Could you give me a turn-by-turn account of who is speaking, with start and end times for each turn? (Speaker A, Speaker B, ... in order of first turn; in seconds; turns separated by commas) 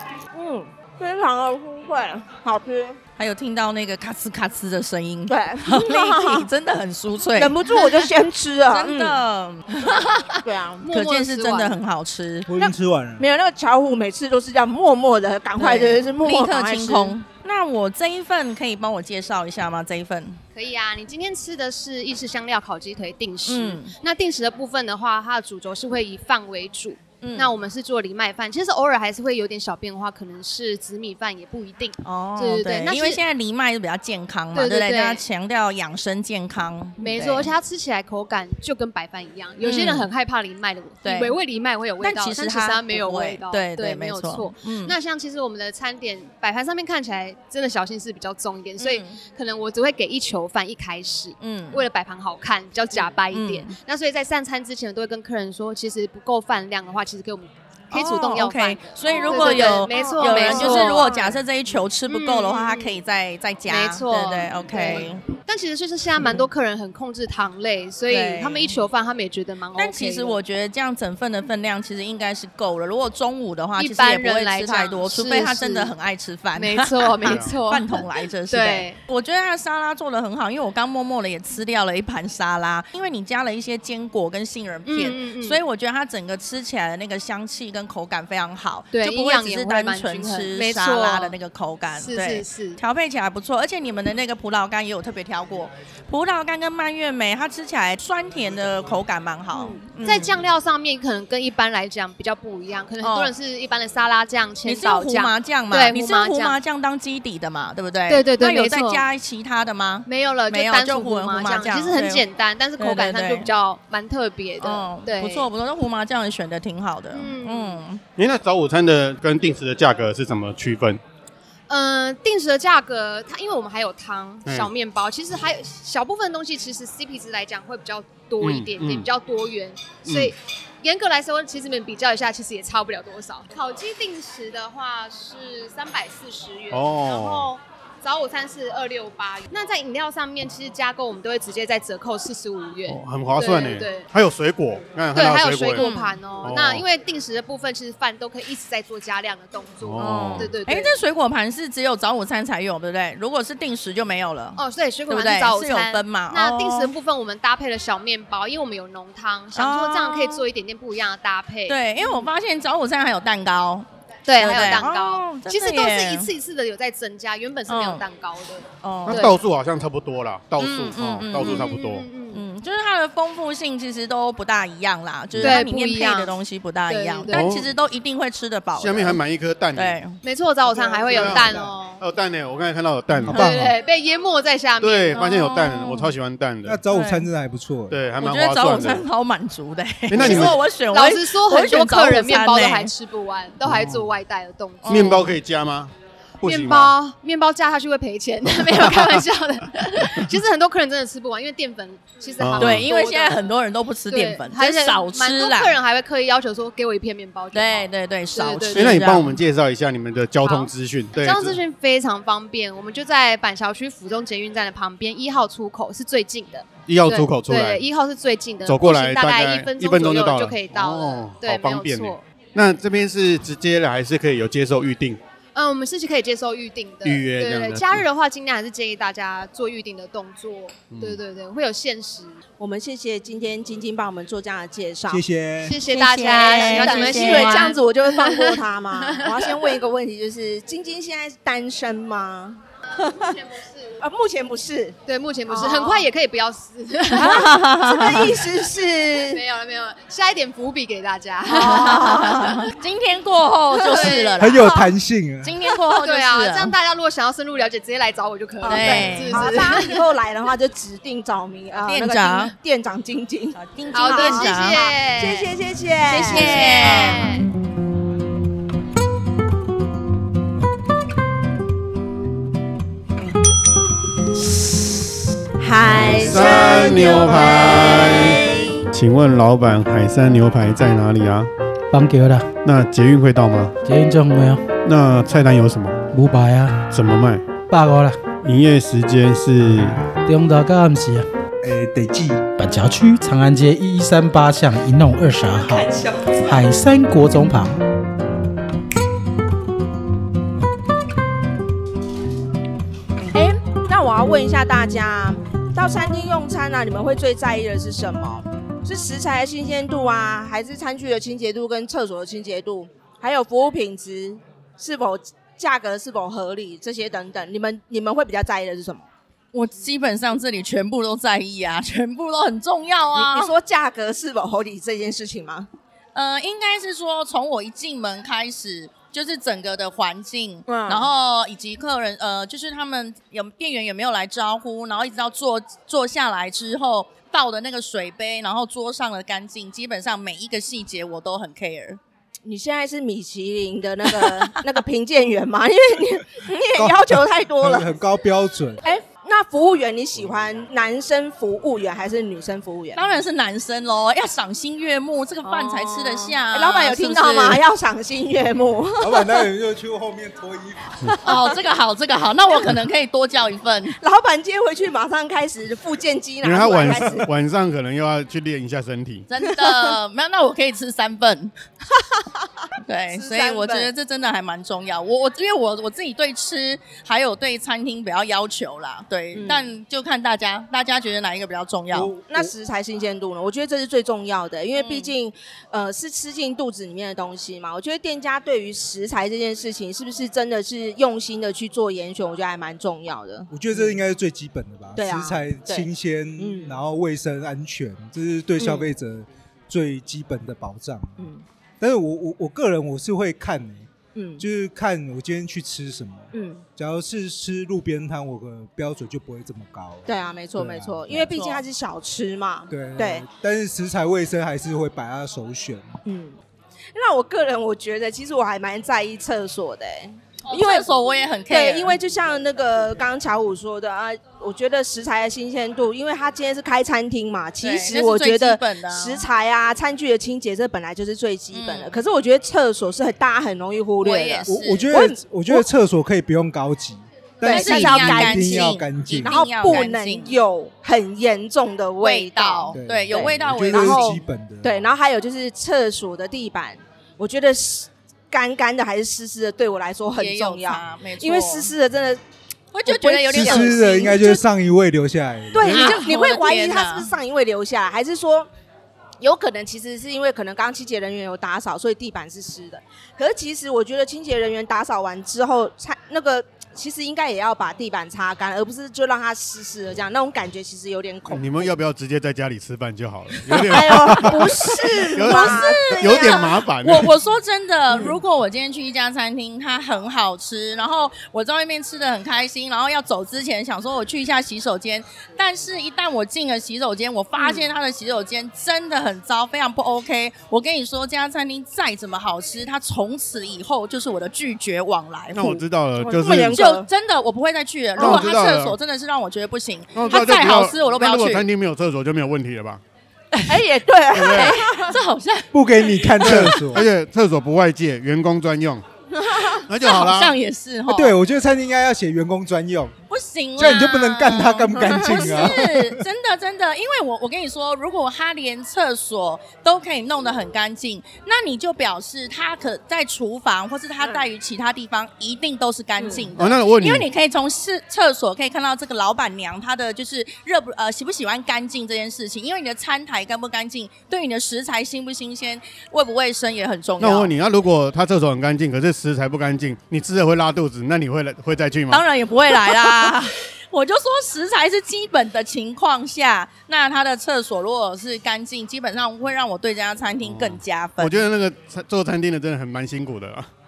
Speaker A: 0.3-3.0, Speaker B: 3.1-7.8, Speaker A: 5.3-6.5, Speaker A: 7.3-9.2, Speaker B: 8.7-12.5, Speaker A: 10.4-10.8, Speaker C: 10.8-11.8, Speaker D: 12.5-13.3, Speaker A: 12.6-17.1, Speaker B: 15.6-20.4, Speaker C: 20.5-33.2, Speaker B: 23.4-23.9, Speaker B: 27.2-27.5, Speaker B: 32.0-37.5, Speaker C: 34.5-35.2, Speaker C: 37.0-61.2, Speaker B: 39.6-40.1, Speaker B: 41.0-41.4, Speaker B: 42.0-44.9, Speaker B: 48.8-49.2, Speaker B: 51.4-51.8, Speaker B: 53.3-53.8, Speaker B: 57.9-65.2, Speaker A: 59.1-61.4, Speaker C: 62.1-63.0, Speaker C: 63.7-70.4, Speaker B: 68.1-68.8, Speaker B: 69.8-100.4, Speaker C: 73.8-75.9, Speaker C: 76.5-79.0, Speaker E: 77.2-77.5, Speaker C: 84.8-85.6, Speaker C: 88.9-91.4, Speaker C: 91.9-92.8, Speaker C: 99.5-106.6, Speaker B: 103.0-103.3, Speaker B: 104.6-112.2, Speaker C: 108.1-109.0, Speaker C: 110.1-115.5, Speaker B: 112.8-113.5, Speaker B: 114.6-118.0, Speaker C: 117.1-117.8, Speaker E: 118.2-121.0, Speaker C: 121.7-144.1, Speaker E: 128.4-129.1, Speaker E: 130.0-130.3, Speaker E: 136.7-137.5, Speaker E: 142.9-145.9, Speaker C: 145.1-150.9, Speaker B: 145.7-146.2, Speaker E: 146.4-146.8, Speaker E: 149.8-150.5, Speaker B: 150.0-156.9, Speaker C: 154.6-162.3, Speaker B: 159.5-160.4, Speaker B: 161.7-163.9, Speaker C: 164.2-169.4, Speaker B: 164.4-166.3, Speaker B: 167.7-168.0, Speaker B: 168.8-169.3, Speaker E: 169.1-172.1, Speaker B: 170.6-171.7, Speaker C: 171.4-172.4, Speaker B: 172.3-179.2, Speaker E: 175.3-175.6, Speaker C: 175.4-176.3, Speaker C: 176.9-177.5, Speaker E: 177.3-177.7, Speaker E: 178.8-180.0, Speaker B: 179.7-180.2, Speaker C: 180.2-182.0, Speaker E: 181.1-183.5, Speaker D: 181.3-181.7, Speaker B: 183.2-183.5, Speaker D: 183.3-183.7, Speaker C: 183.3-185.5, Speaker E: 184.8-186.8, Speaker B: 185.2-186.1, Speaker D: 186.6-188.0, Speaker B: 186.9-187.3, Speaker E: 187.9-189.0, Speaker B: 188.2-192.9, Speaker E: 190.1-190.6, Speaker C: 190.2-195.3, Speaker E: 193.6-194.1, Speaker B: 194.8-195.3, Speaker E: 194.9-196.9, Speaker C: 196.4-203.4, Speaker E: 202.4-202.9, Speaker B: 202.6-205.8, Speaker C: 204.1-209.2, Speaker B: 207.5-209.3, Speaker E: 208.7-211.6, Speaker C: 210.4-222.2, Speaker E: 216.9-217.8, Speaker E: 218.7-225.2, Speaker C: 225.5-232.3, Speaker E: 227.0-228.0, Speaker E: 230.9-231.2, Speaker A: 232.6-235.2, Speaker D: 235.1-235.8, Speaker C: 235.6-239.8, Speaker A: 235.8-243.4, Speaker B: 236.2-237.8, Speaker C: 243.0-244.0, Speaker A: 244.0-245.0, Speaker C: 245.1-248.2, Speaker A: 245.5-246.1, Speaker B: 247.1-248.3, Speaker A: 247.1-249.4, Speaker C: 249.1-252.7, Speaker B: 251.4-254.8, Speaker C: 253.8-254.9, Speaker D: 254.4-255.5, Speaker B: 255.4-256.7, Speaker C: 255.8-260.1, Speaker A: 258.6-266.6, Speaker B: 258.6-259.9, Speaker B: 261.7-262.5, Speaker B: 263.5-264.9, Speaker C: 263.9-265.5, Speaker B: 266.1-267.3, Speaker C: 266.1-267.5, Speaker A: 275.6-278.9, Speaker E: 275.9-281.5, Speaker F: 281.9-282.5, Speaker E: 282.6-283.7, Speaker F: 283.8-284.6, Speaker E: 284.8-286.0, Speaker F: 286.1-286.8, Speaker E: 286.9-287.4, Speaker F: 287.7-288.2, Speaker E: 288.4-290.0, Speaker F: 290.2-291.2, Speaker D: 291.6-292.4, Speaker F: 292.6-297.8, Speaker A: 303.3-319.1, Speaker B: 319.5-323.5, Speaker A: 323.1-325.7, Speaker B: 326.1-342.0, Speaker A: 330.7-331.1, Speaker A: 342.4-347.9, Speaker B: 344.1-344.6, Speaker D: 346.7-348.8, Speaker A: 348.8-353.0, Speaker B: 352.9-357.6, Speaker A: 355.4-359.5, Speaker D: 359.0-361.2, Speaker A: 361.1-361.5, Speaker B: 361.2-364.0, Speaker A: 364.0-367.2, Speaker E: 366.4-369.2, Speaker B: 369.3-371.5, Speaker A: 372.0-373.9, Speaker B: 372.8-382.1, Speaker A: 379.3-379.7, Speaker A: 381.9-394.0, Speaker B: 384.7-385.1, Speaker D: 393.5-401.3, Speaker A: 394.9-396.8, Speaker A: 398.6-398.9, Speaker A: 401.2-401.4, Speaker D: 401.8-411.3, Speaker A: 404.1-404.4, Speaker A: 406.3-406.6, Speaker A: 410.1-413.2, Speaker B: 411.2-411.6, Speaker D: 412.7-416.0, Speaker A: 416.0-416.4, Speaker A: 416.9-421.0, Speaker B: 420.4-422.0, Speaker A: 421.5-435.6, Speaker B: 427.6-429.2, Speaker B: 431.5-432.0, Speaker B: 434.0-434.9, Speaker D: 434.4-439.4, Speaker A: 437.4-452.2, Speaker B: 437.4-440.4, Speaker B: 442.0-444.2, Speaker D: 442.7-444.9, Speaker B: 450.1-451.7, Speaker B: 452.7-454.4, Speaker A: 452.8-454.4, Speaker D: 453.3-456.0, Speaker A: 455.5-458.5, Speaker B: 455.6-457.1, Speaker A: 459.2-471.7, Speaker E: 471.3-477.1, Speaker A: 473.5-476.6, Speaker B: 475.2-495.6, Speaker A: 477.9-478.2, Speaker A: 487.4-487.7, Speaker E: 495.3-496.6, Speaker A: 496.0-496.9, Speaker B: 496.5-501.4, Speaker A: 498.0-498.3, Speaker E: 498.0-498.8, Speaker E: 499.9-502.8, Speaker B: 503.3-506.5, Speaker A: 503.5-505.0, Speaker E: 504.1-504.6, Speaker D: 505.5-506.9, Speaker E: 506.2-508.8, Speaker A: 509.1-509.6, Speaker E: 509.4-510.4, Speaker B: 509.8-511.1, Speaker D: 510.9-512.9, Speaker B: 513.1-537.3, Speaker D: 513.6-516.0, Speaker A: 514.8-515.5, Speaker A: 524.0-524.2, Speaker A: 526.0-526.3, Speaker E: 526.4-527.1, Speaker E: 537.0-542.0, Speaker B: 541.9-551.3, Speaker E: 550.2-553.5